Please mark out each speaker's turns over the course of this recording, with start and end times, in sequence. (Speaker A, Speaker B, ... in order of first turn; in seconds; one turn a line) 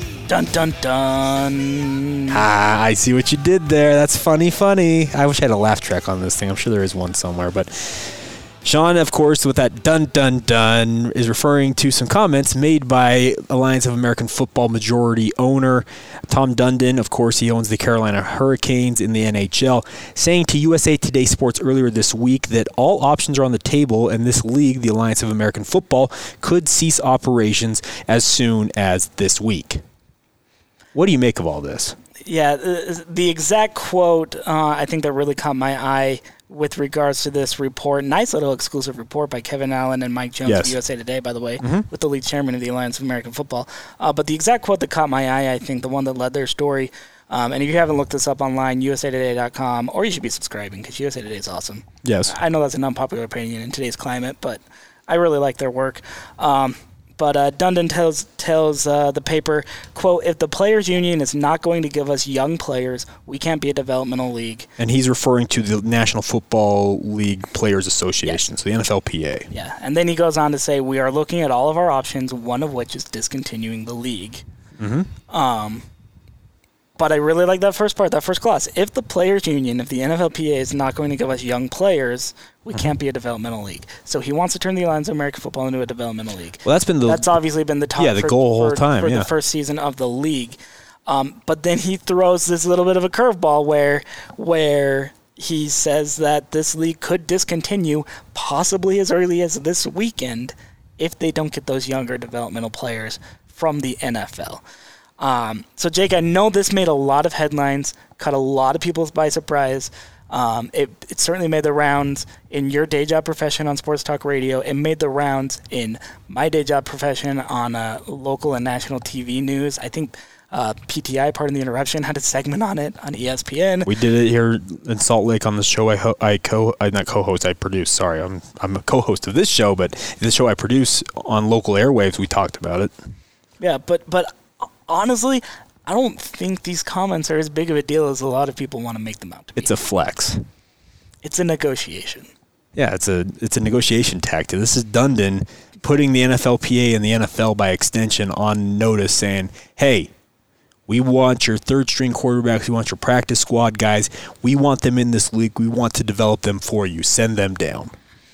Speaker A: 0.3-2.4
Speaker B: 2.3-29.8
Speaker B: 30.9-32.0
Speaker A: 32.3-64.7
Speaker B: 40.4-40.8
Speaker B: 41.6-41.9
Speaker B: 52.0-52.4
Speaker B: 64.8-69.5
Speaker A: 69.5-74.4
Speaker B: 74.8-75.1
Speaker A: 75.3-75.8
Speaker A: 77.0-104.6
Speaker B: 86.7-87.4
Speaker B: 88.0-89.3
Speaker A: 105.2-123.9
Speaker B: 123.9-132.9
Speaker A: 133.6-134.3
Speaker A: 134.9-139.7
Speaker B: 139.6-140.4
Speaker A: 141.2-142.3
Speaker B: 142.8-150.1
Speaker B: 150.9-157.9